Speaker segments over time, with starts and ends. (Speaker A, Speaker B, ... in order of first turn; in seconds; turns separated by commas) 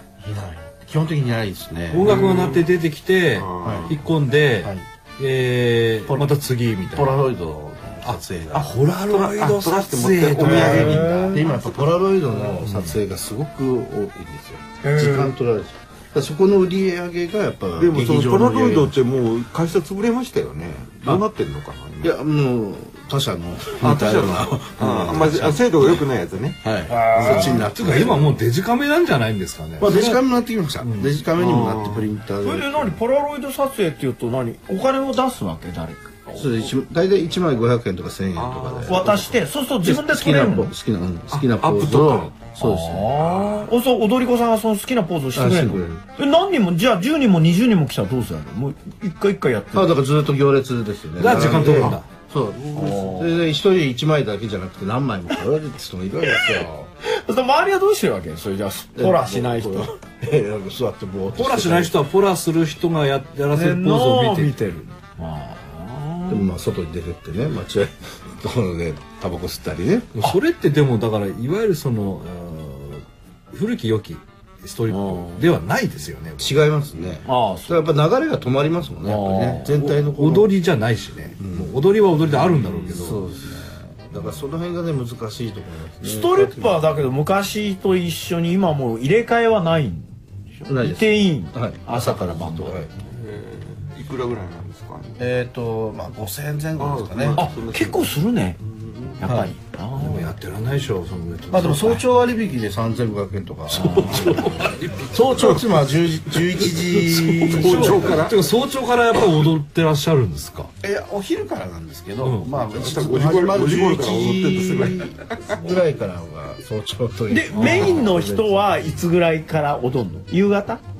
Speaker A: 0.2-2.3, Speaker B: 1.9-7.2, Speaker C: 2.0-2.7, Speaker C: 3.3-3.9, Speaker A: 3.6-3.9, Speaker A: 6.8-8.8, Speaker B: 8.0-11.2, Speaker C: 8.6-11.8, Speaker D: 10.4-11.4, Speaker A: 10.4-19.0, Speaker D: 14.8-15.3, Speaker C: 17.8-22.1, Speaker A: 22.0-26.0, Speaker C: 23.8-27.7, Speaker A: 26.6-28.4, Speaker D: 26.9-27.4, Speaker B: 27.2-30.2, Speaker A: 29.8-33.0, Speaker B: 30.8-31.1, Speaker C: 31.4-32.1, Speaker D: 32.4-36.3, Speaker A: 36.3-39.1, Speaker C: 38.3-39.5, Speaker D: 38.9-40.7, Speaker A: 39.8-43.2, Speaker C: 41.4-42.2, Speaker B: 41.6-42.2, Speaker D: 42.6-50.0, Speaker A: 45.3-46.0, Speaker A: 49.7-56.9, Speaker B: 51.2-52.1, Speaker D: 52.7-53.4, Speaker D: 57.0-60.0, Speaker A: 58.9-62.0, Speaker B: 61.3-64.6, Speaker D: 63.5-66.5, Speaker A: 66.3-70.2, Speaker B: 70.1-76.6, Speaker D: 74.9-75.4, Speaker A: 76.4-80.5, Speaker D: 77.2-77.8, Speaker D: 79.0-79.7, Speaker B: 79.7-83.2, Speaker A: 81.4-81.7, Speaker A: 82.5-86.8, Speaker D: 86.0-90.1, Speaker D: 90.7-92.8, Speaker A: 90.7-92.9, Speaker C: 93.0-95.2, Speaker A: 95.2-97.5, Speaker C: 96.8-98.1, Speaker D: 97.3-98.6, Speaker C: 98.8-99.2, Speaker D: 99.2-100.3, Speaker A: 99.2-99.5, Speaker B: 100.0-102.0, Speaker A: 101.5-108.3, Speaker B: 103.7-105.6, Speaker B: 106.7-110.7, Speaker C: 107.5-108.4, Speaker A: 110.8-118.8, Speaker B: 112.2-112.5, Speaker C: 112.6-115.6, Speaker D: 117.3-120.8, Speaker B: 117.5-117.9